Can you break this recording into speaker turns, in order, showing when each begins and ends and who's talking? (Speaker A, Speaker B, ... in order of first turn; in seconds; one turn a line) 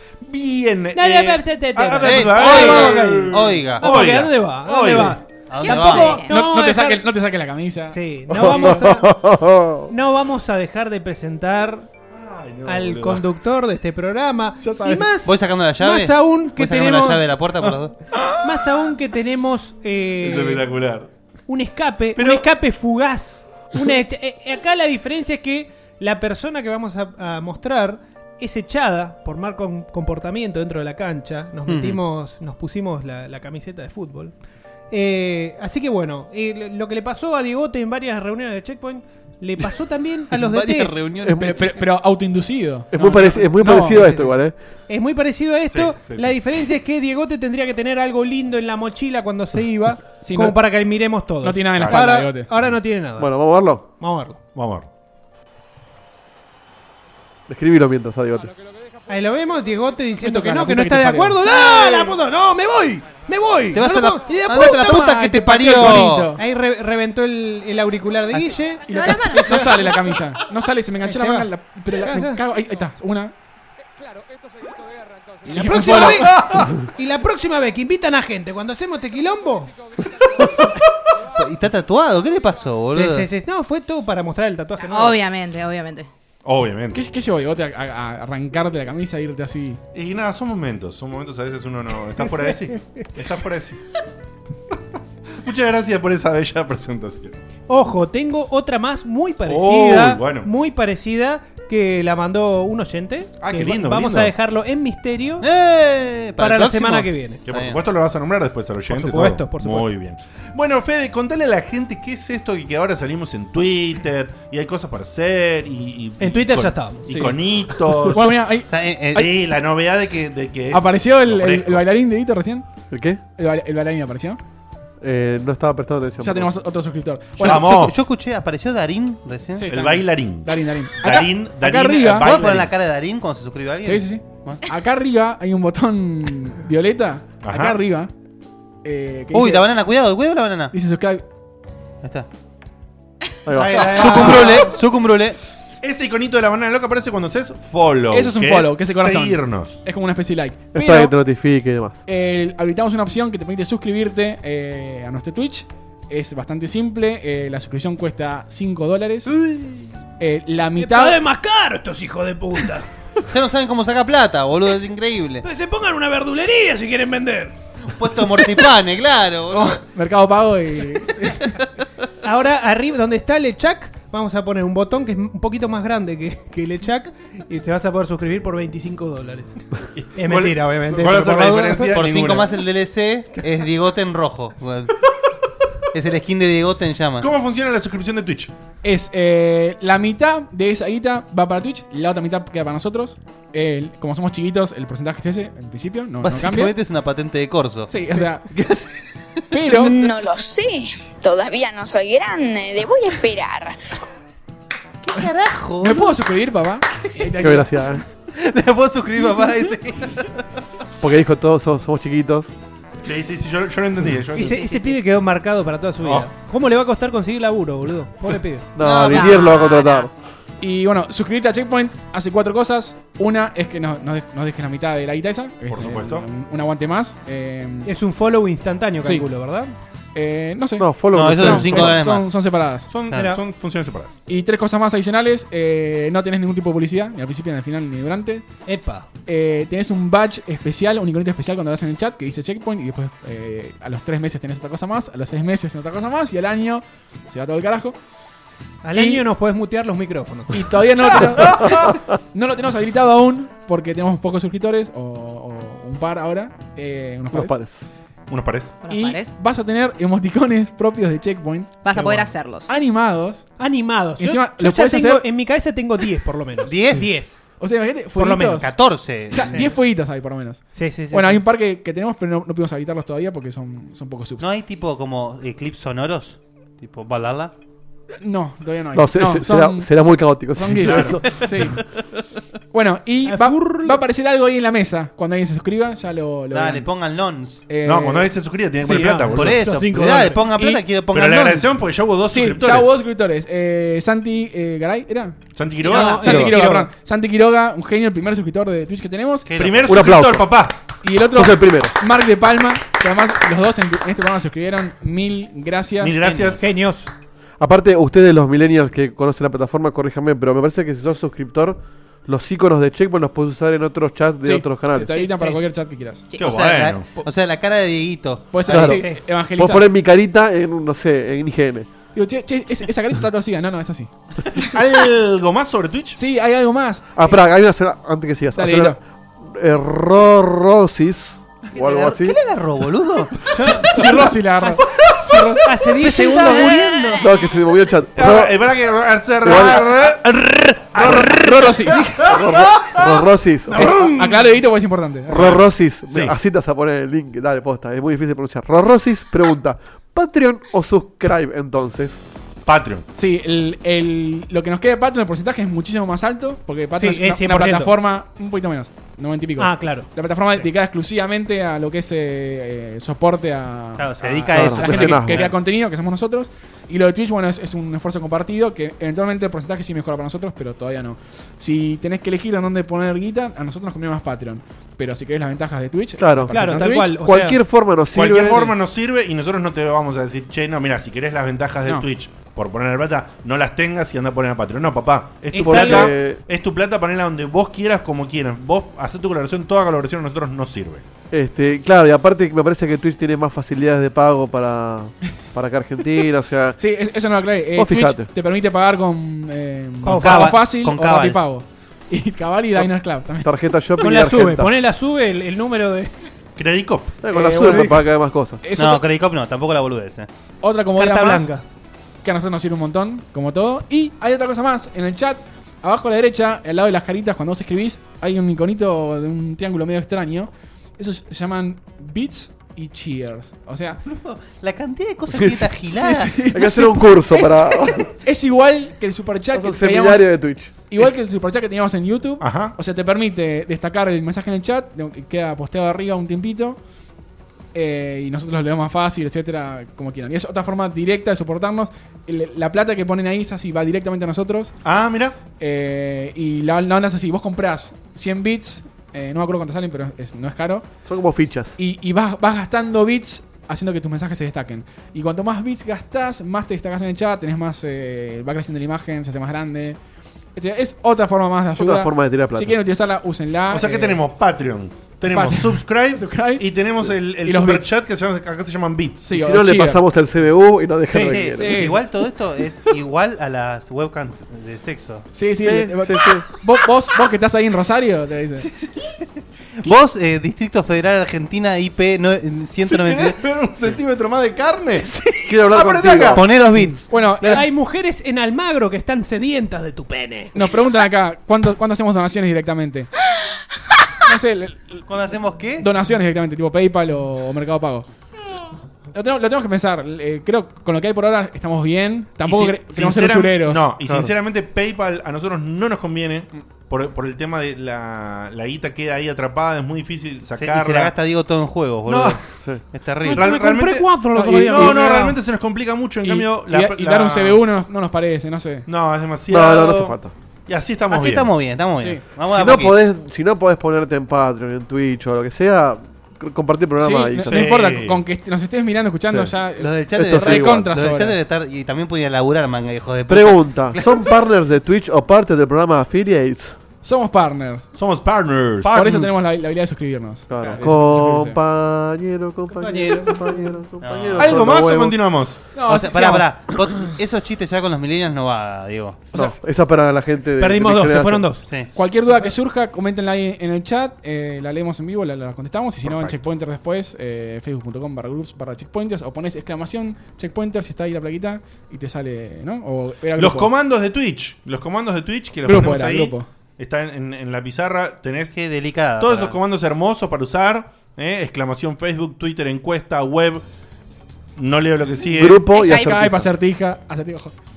Speaker A: 0.2-5.2
Speaker B: 0.9-7.0
Speaker C: 2.0-4.1
Speaker C: 5.5-6.2
Speaker D: 5.6-6.4
Speaker E: 5.7-8.8
Speaker B: 7.9-9.2
Speaker F: 8.3-9.9
Speaker B: 9.9-11.9
Speaker A: 12.1-13.2
Speaker B: 12.6-17.2
Speaker E: 14.6-15.1
Speaker C: 15.2-17.9
Speaker B: 18.4-20.7
Speaker A: 20.2-21.1
Speaker B: 21.5-34.3
Speaker A: 22.1-22.4
Speaker C: 31.7-32.0
Speaker B: 34.9-41.1
Speaker C: 40.3-41.7
Speaker F: 41.2-41.7
Speaker E: 41.4-44.2
Speaker F: 42.9-44.5
Speaker B: 43.0-44.4
Speaker B: 44.9-53.3
Speaker A: 45.7-46.3
Speaker E: 50.2-50.6
Speaker E: 51.4-52.5
Speaker A: 51.8-52.0
Speaker F: 53.2-53.8
Speaker B: 54.0-54.4
Speaker A: 54.5-54.9
Speaker F: 57.5-58.5
Speaker B: 59.1-65.2
Speaker E: 60.2-61.4
Speaker A: 61.6-62.1
Speaker C: 63.7-66.3
Speaker E: 64.7-66.4
Speaker B: 65.9-70.0
Speaker D: 68.9-69.7
Speaker E: 68.9-73.3
Speaker B: 71.0-72.4
Speaker E: 75.5-76.4
Speaker B: 75.5-79.7
Speaker A: 76.0-76.8
Speaker C: 81.3-83.3
Speaker B: 82.9-85.2
Speaker D: 84.9-86.1
Speaker A: 86.4-87.0
Speaker E: 86.9-89.8
Speaker A: 89.9-93.8
Speaker B: 92.2-93.0
Speaker A: 95.4-97.3
Speaker B: 97.7-105.5
Speaker A: 99.5-100.5
Speaker A: 103.4-104.3
Speaker C: 105.4-107.8
Speaker B: 106.4-107.4
Speaker A: 107.5-118.5
Speaker B: 108.9-109.9
Speaker B: 116.2-117.0
Speaker E: 117.1-117.4
Speaker E: 118.1-119.3
Speaker C: 118.7-119.3
Speaker A: 119.1-121.8
Speaker E: 120.7-122.7
Speaker F: 122.9-123.2
Speaker E: 123.4-124.4
Speaker F: 125.0-126.5
Speaker E: 126.2-127.7
Speaker A: 127.4-128.0
Speaker C: 127.4-129.7
Speaker E: 129.5-132.3
Speaker A: 129.7-132.7
Speaker C: 132.1-134.6
Speaker E: 133.8-138.1
Speaker A: 137.4-137.8
Speaker E: 138.8-139.7
Speaker C: 139.3-140.7
Speaker E: 140.7-141.2
Speaker F: 143.4-144.3
Speaker B: 143.5-144.7
Speaker A: 143.7-144.6
Speaker C: 143.8-145.4
Speaker A: 145.8-149.8
Speaker E: 148.1-151.1
Speaker F: 150.7-152.0
Speaker E: 152.1-159.4
Speaker E: 160.2-161.2
Speaker B: 160.8-162.9
Speaker C: 163.3-165.4
Speaker B: 165.4-167.5
Speaker C: 167.9-169.8
Speaker E: 169.5-171.6
Speaker B: 172.2-179.6
Speaker A: 179.9-182.6
Speaker B: 180.1-182.0
Speaker C: 181.9-184.9
Speaker C: 185.9-187.3
Speaker A: 187.2-188.5
Speaker E: 188.8-196.7
Speaker C: 196.2-197.9
Speaker E: 197.9-198.5
Speaker C: 198.5-199.1
Speaker E: 199.5-199.9
Speaker G: 199.7-203.8
Speaker C: 205.0-206.1
Speaker E: 205.8-208.0
Speaker F: 207.3-208.0
Speaker C: 208.3-210.4
Speaker F: 211.0-212.5
Speaker A: 213.0-214.8
Speaker B: 214.3-218.7
Speaker A: 216.0-216.3
Speaker F: 218.8-220.1
Speaker C: 218.8-220.1
Speaker E: 220.6-227.9
Speaker A: 225.7-226.2
Speaker B: 227.8-229.7
Speaker E: 230.1-232.9
Speaker F: 230.8-231.9
Speaker C: 231.1-232.3
Speaker A: 232.9-234.1
Speaker B: 233.1-233.4
Speaker E: 234.3-238.4
Speaker B: 238.7-239.1
Speaker E: 239.2-248.0
Speaker B: 248.8-251.2
Speaker E: 248.9-249.2
Speaker E: 250.5-257.6
Speaker F: 257.3-257.9
Speaker A: 258.3-258.8
Speaker D: 258.8-259.3
Speaker E: 258.9-263.5
Speaker D: 261.8-262.7
Speaker B: 263.6-267.5
Speaker E: 264.2-265.2
Speaker C: 266.6-267.1
Speaker E: 267.6-268.7
Speaker B: 268.2-268.7
Speaker C: 268.5-269.7
Speaker E: 269.3-274.4
Speaker B: 269.3-269.7
Speaker B: 270.7-271.4
Speaker C: 274.4-277.5
Speaker E: 278.2-281.8
Speaker F: 278.9-281.5
Speaker A: 280.8-281.2
Speaker E: 282.7-286.9
Speaker B: 283.3-284.0
Speaker C: 286.5-287.6
Speaker E: 287.7-288.3
Speaker A: 287.8-289.7
Speaker B: 288.8-290.6
Speaker C: 289.3-291.7
Speaker A: 291.1-292.9
Speaker E: 292.2-299.5
Speaker A: 295.6-296.4
Speaker B: 295.8-296.9
Speaker F: 296.3-296.5
Speaker C: 299.5-300.1
Speaker A: 299.5-300.8
Speaker F: 299.8-300.6
Speaker E: 301.0-306.4
Speaker F: 301.3-301.9
Speaker A: 306.0-306.6
Speaker B: 306.6-307.1
Speaker F: 307.6-315.3
Speaker E: 314.4-316.3
Speaker C: 316.4-319.0
Speaker A: 316.4-317.1
Speaker E: 318.5-319.9
Speaker F: 318.7-321.9
Speaker B: 318.8-319.2
Speaker E: 322.1-324.1
Speaker A: 324.5-326.2
Speaker E: 326.1-327.4
Speaker F: 327.1-332.4
Speaker E: 328.6-329.0
Speaker C: 331.7-333.9
Speaker E: 333.6-335.7
Speaker B: 335.5-337.2
Speaker C: 336.0-337.3
Speaker F: 337.2-338.6
Speaker A: 338.1-343.2
Speaker F: 339.4-340.1
Speaker E: 341.0-342.1
Speaker F: 341.0-341.3
Speaker F: 342.0-343.9
Speaker B: 343.7-344.5
Speaker E: 343.7-345.6
Speaker F: 345.3-352.2
Speaker A: 345.3-346.3
Speaker A: 352.6-353.1
Speaker E: 353.1-377.1
Speaker B: 356.9-358.0
Speaker B: 359.6-360.1
Speaker C: 364.0-365.6
Speaker F: 364.5-365.5
Speaker F: 376.2-378.7
Speaker B: 376.5-377.6
Speaker A: 378.1-391.0
Speaker B: 385.5-386.1
Speaker F: 385.6-386.4
Speaker F: 391.3-396.8
Speaker E: 396.8-403.5
Speaker F: 397.8-398.3
Speaker B: 400.0-400.6
Speaker C: 400.1-401.4
Speaker F: 403.4-404.7
Speaker B: 404.0-406.1
Speaker A: 406.6-407.1
Speaker F: 407.2-408.6
Speaker E: 407.3-408.1
Speaker E: 408.6-409.0
Speaker C: 408.7-410.3
Speaker E: 410.6-411.5
Speaker B: 410.9-411.6
Speaker E: 412.2-424.0
Speaker C: 424.1-426.5
Speaker F: 425.3-425.7
Speaker E: 425.9-436.8
Speaker F: 426.5-428.1
Speaker F: 429.5-430.7
Speaker A: 432.4-432.7
Speaker E: 437.7-444.7
Speaker A: 444.8-445.4
Speaker E: 445.6-450.9
Speaker F: 451.0-451.8
Speaker E: 451.8-460.0
Speaker E: 460.6-464.2
Speaker F: 461.8-462.8
Speaker A: 463.7-469.3
Speaker E: 465.2-466.6
Speaker E: 467.4-467.9
Speaker E: 469.2-470.0
Speaker F: 469.3-471.9
Speaker B: 471.1-471.4
Speaker C: 471.2-475.2
Speaker E: 471.6-472.1
Speaker E: 475.3-478.7
Speaker F: 475.6-476.4
Speaker C: 478.6-483.4
Speaker A: 482.8-486.5
Speaker F: 485.4-486.5
Speaker C: 486.3-487.6
Speaker E: 487.1-487.6
Speaker B: 487.5-490.5
Speaker E: 490.5-493.1
Speaker E: 494.2-495.1
Speaker C: 495.1-495.9
Speaker E: 495.8-498.1
Speaker E: 499.1-503.9
Speaker A: 502.4-511.1
Speaker F: 504.0-504.3
Speaker C: 510.5-512.4
Speaker A: 512.0-512.4
Speaker F: 512.5-512.8
Speaker C: 512.9-513.4
Speaker B: 513.2-515.4
Speaker A: 513.3-517.6
Speaker E: 514.3-515.3
Speaker E: 516.2-518.9
Speaker A: 518.9-521.5
Speaker F: 519.5-520.3
Speaker C: 521.1-523.0
Speaker F: 522.5-527.8
Speaker E: 527.0-531.4
Speaker A: 527.4-528.2
Speaker C: 529.8-534.3
Speaker F: 530.1-530.9
Speaker F: 533.3-536.8
Speaker E: 537.0-537.9
Speaker A: 537.9-539.3
Speaker E: 538.9-541.6
Speaker F: 539.0-539.2
Speaker F: 540.5-545.2
Speaker B: 542.7-543.4
Speaker C: 544.0-544.7
Speaker A: 544.4-545.7
Speaker E: 545.7-546.5
Speaker C: 545.8-549.3
Speaker F: 549.3-551.5
Speaker B: 550.6-551.6
Speaker E: 551.9-563.7
Speaker A: 556.0-556.4
Speaker A: 563.4-568.6
Speaker E: 565.6-566.5
Speaker C: 568.5-569.6
Speaker A: 569.2-573.6
Speaker A: 574.6-575.6
Speaker F: 575.3-576.5
Speaker D: 575.7-576.0
Speaker E: 575.8-577.5